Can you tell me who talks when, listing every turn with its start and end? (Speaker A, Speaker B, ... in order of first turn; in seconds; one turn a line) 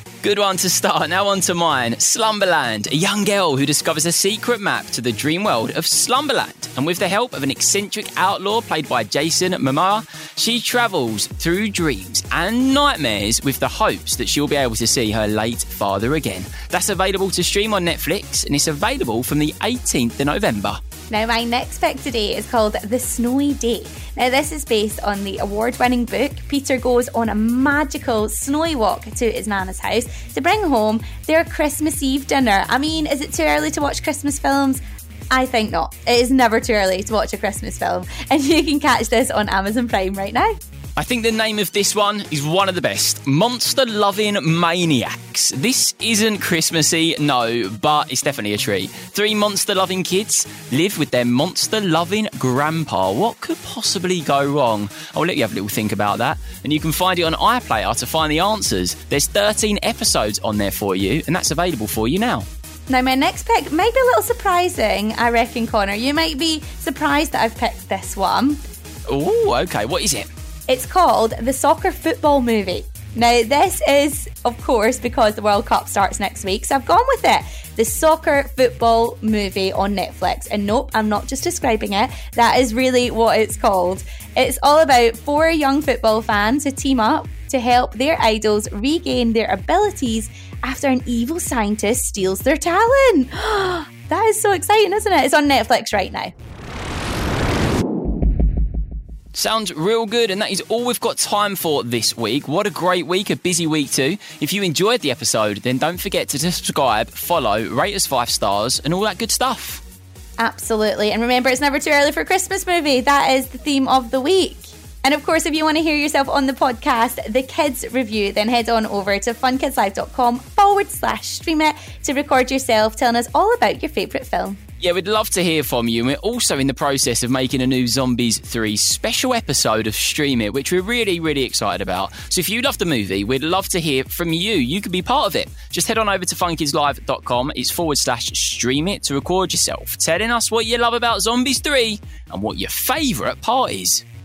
Speaker A: 0.2-20.8
Speaker B: 21.1-34.8
Speaker B: 35.3-40.5
Speaker A: 41.0-62.5
Speaker B: 62.9-68.6
Speaker A: 69.1-70.3
Speaker B: 70.7-96.3
Speaker A: 99.3-109.8
Speaker B: 110.4-124.6
Speaker A: 124.8-144.0